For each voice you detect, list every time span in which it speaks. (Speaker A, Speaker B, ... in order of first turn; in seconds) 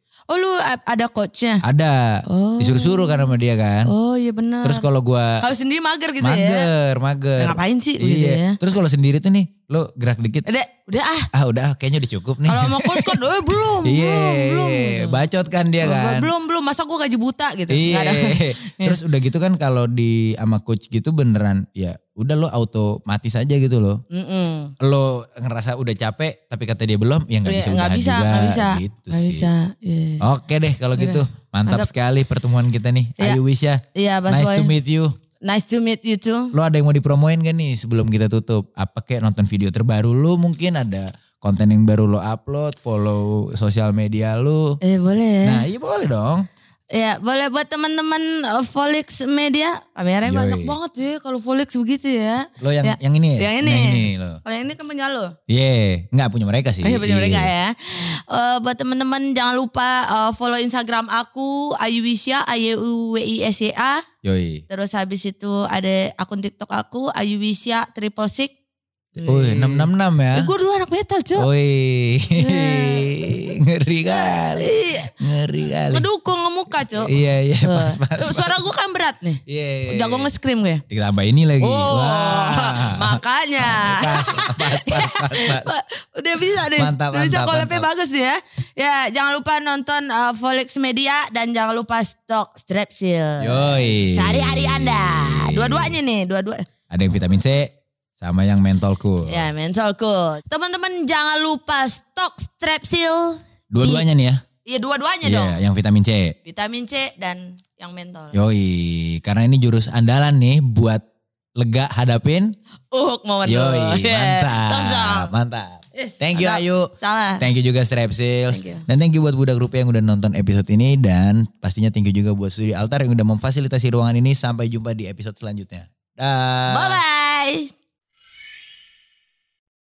Speaker A: 0.3-1.6, 2.3-3.3, 3.9-4.9, 5.4-6.7, 7.4-8.6, 10.4-11.3, 12.5-15.2, 15.8-19.0, 24.1-24.7, 27.4-30.2, 30.9-31.9, 33.9-34.7, 35.4-36.5, 44.8-45.6, 46.9-55.3, 56.8-64.0, 64.7-68.5, 69.1-71.5, 72.3-73.4, 74.1-75.1, 75.9-80.8, 81.6-96.7, 99.2-104.0, 104.6-105.6, 106.5-108.4, 112.9-115.3, 115.9-117.4, 118.5-118.8, 126.7-127.7
Speaker B: 1.6-3.9, 4.6-5.5, 6.2-10.4, 11.3-16.3, 17.7-24.0, 24.8-29.5, 30.2-35.1, 36.5-44.8, 45.4-46.5, 50.2-50.8, 52.6-54.4, 55.5-57.5, 64.2-64.6, 69.2-70.5, 71.4-76.0, 76.9-78.6, 79.5-80.3, 80.9-85.7, 86.7-87.9, 93.4-96.0, 96.9-99.5, 103.7-104.4, 105.2-106.4, 108.3-111.0, 111.6-112.5, 113.4-127.0